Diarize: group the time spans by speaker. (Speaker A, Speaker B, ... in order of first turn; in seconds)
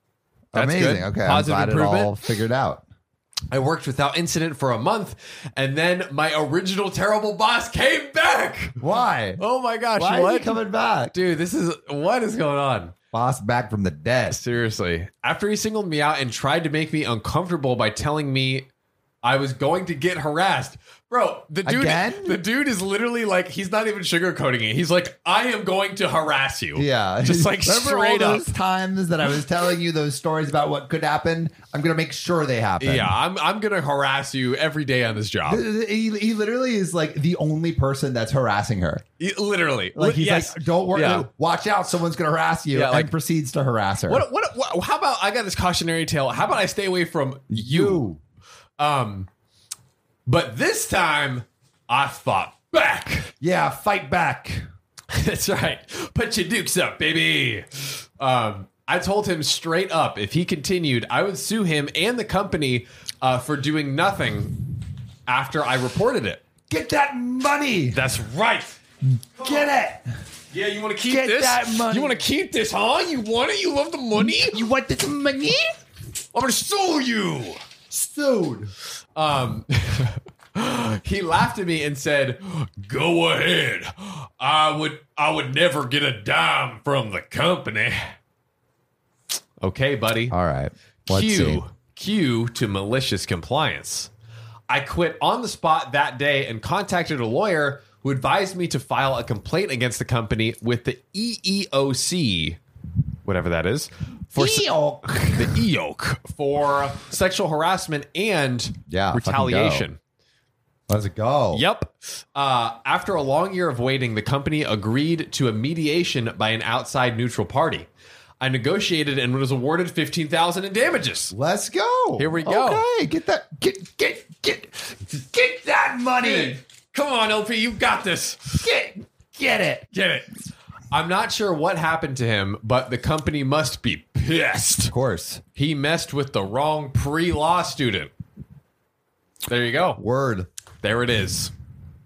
Speaker A: 0.5-2.8, 8.8-9.4, 10.0-11.2, 13.1-14.4, 21.6-22.4, 26.8-33.1, 35.5-39.0, 40.0-44.2, 47.5-48.2, 53.4-54.6, 66.7-68.0, 69.3-70.1, 71.0-72.2, 74.2-75.7, 77.9-78.7, 90.3-91.6, 104.4-105.6, 108.9-109.9, 110.9-111.7, 121.3-126.6, 128.6-129.9, 134.9-135.4, 140.0-140.5
Speaker B: 0.5-2.1, 3.5-8.8, 9.4-10.6, 11.1-12.9, 14.3-18.7, 19.2-28.5, 32.8-35.6, 39.2-41.3, 42.7-43.1, 44.1-48.0, 48.8-49.3, 50.3-53.3, 55.1-64.6, 65.3-66.4, 67.9-68.8, 70.5-74.6, 76.3-77.6, 79.2-88.0, 89.6-90.3, 91.1-94.1, 94.7-102.6, 103.2-104.7, 105.3-110.0, 111.5-117.9, 118.4-121.3, 122.2-122.8, 126.2-128.7, 129.9-130.3, 130.9-134.9, 135.6-138.1, 139.5-140.0, 140.8-141.5